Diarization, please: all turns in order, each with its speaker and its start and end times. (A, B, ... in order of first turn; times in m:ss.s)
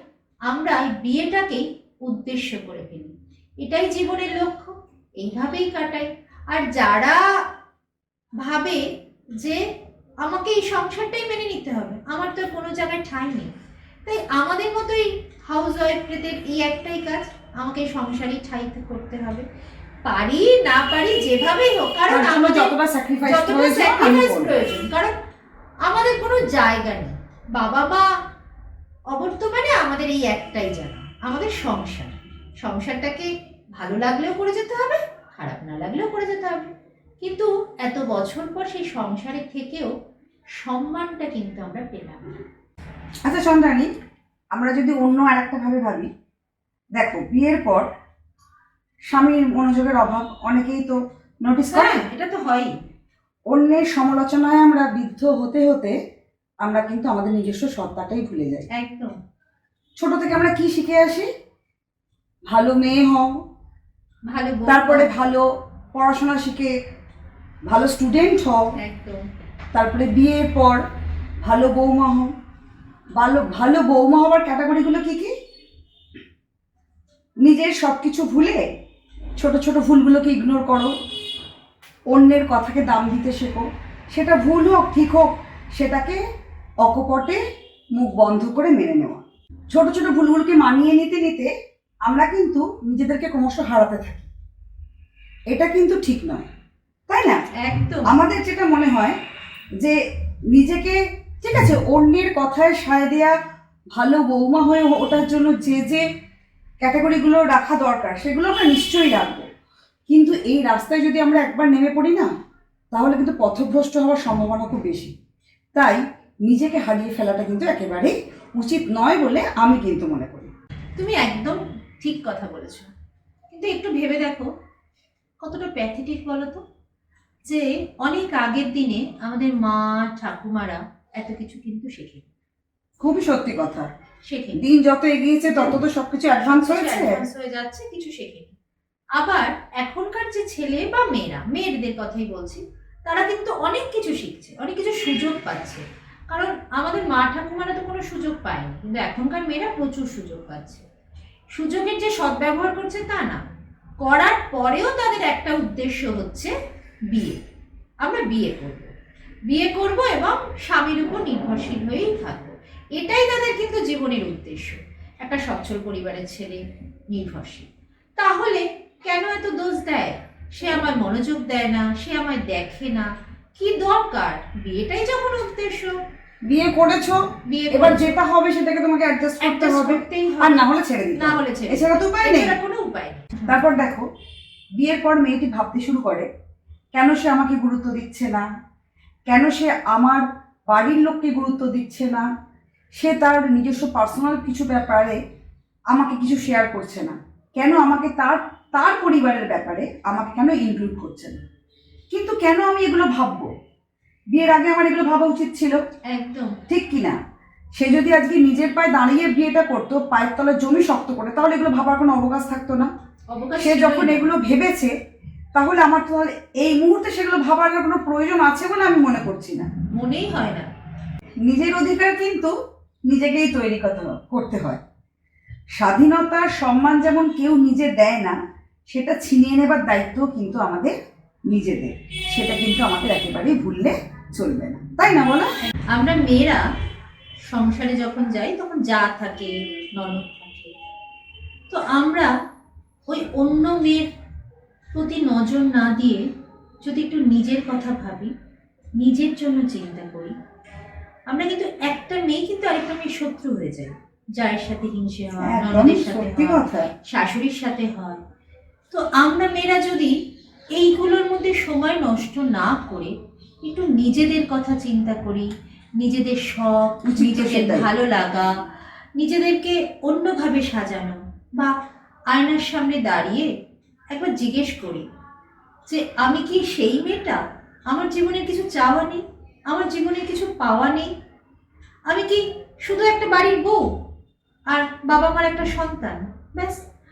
0:00.5-0:07.2 A
0:08.4-0:08.8 A
0:10.2-0:13.5 A
0:14.0-0:19.4 A
0:20.0-0:22.7 A
0:22.1-0:24.6 B
0:23.2-0:25.1 A
0:25.8-0:28.0 A
0:29.1-0:36.7 A
0:37.2-0:39.9 A
0:40.6-0:42.4 A
0:43.2-0:43.9 B
0:44.5-0:46.1 B
0:46.9-0:47.9 B
0:49.1-0:52.0 B
0:51.7-0:52.8 A
0:53.5-0:55.9 B
0:56.6-0:58.6 B
0:58.7-0:59.1 A
1:00.0-1:01.3 B
1:02.5-1:03.3 B
1:04.3-1:05.1 A
1:04.6-1:06.7 B
1:07.7-1:08.7 B
1:08.8-1:09.2 A
1:09.7-1:10.8 B
1:11.4-1:12.3 B
1:13.1-1:15.3 B
1:17.4-1:18.6 B
1:19.4-1:20.9 B
1:22.1-1:26.2 B
1:26.8-1:27.4 B
1:27.9-1:31.5 B
1:32.0-1:34.3 B
1:35.5-1:36.5 B
1:37.1-1:37.4 B
1:37.6-1:38.2 A
1:38.0-1:39.2 B
1:40.5-1:43.4 B
1:43.9-1:46.0 B
1:46.8-1:49.4 B
1:50.1-1:52.3 B
1:52.9-1:55.1 B
1:55.7-2:00.5 B
2:01.0-2:02.9 A
2:03.5-2:04.5 A
2:05.4-2:06.6 A
2:07.4-2:12.2 A
2:13.0-2:13.9 B
2:14.2-2:14.6 A
2:14.6-2:17.2 B
2:15.5-2:15.8 A
2:16.4-2:18.5 A
2:19.2-2:30.8 A
2:31.5-2:33.4 A
2:34.0-2:36.5 A
2:37.1-2:37.4 A
2:38.0-2:38.9 A
2:39.5-2:46.6 A
2:47.1-2:55.9 A
2:56.5-3:02.6 B
2:57.5-2:58.1 A
2:59.4-3:00.6 A
3:01.2-3:03.6 A
3:03.4-3:04.0 B
3:04.8-3:06.3 B
3:06.9-3:08.4 B
3:09.3-3:12.3 B
3:13.0-3:15.2 B
3:15.9-3:21.4 B
3:22.1-3:23.5 B
3:24.3-3:25.8 B
3:26.1-3:26.6 A
3:26.7-3:27.2 B
3:27.7-3:32.9 B
3:33.3-3:34.3 A
3:33.6-3:34.9 B
3:35.5-3:39.7 B
3:39.9-3:40.7 A
3:41.4-3:42.5 B
3:43.1-3:44.8 B
3:45.8-3:48.4 B
3:48.9-3:50.9 B
3:51.5-3:55.5 B
3:55.9-3:56.6 A
3:57.5-4:00.7 A
4:01.7-4:02.3 A
4:03.1-4:04.1 A
4:04.9-4:06.2 A
4:06.8-4:08.3 A
4:09.0-4:10.3 A
4:11.3-4:18.2 A
4:15.4-4:16.9 B
4:18.9-4:20.1 A
4:20.7-4:25.5 A
4:26.0-4:28.5 A
4:27.0-4:27.9 B
4:29.2-4:31.7 A
4:32.3-4:33.5 A
4:34.1-4:35.0 A
4:35.9-4:37.4 A
4:37.9-4:41.1 A
4:42.1-4:43.8 A
4:44.7-4:46.8 A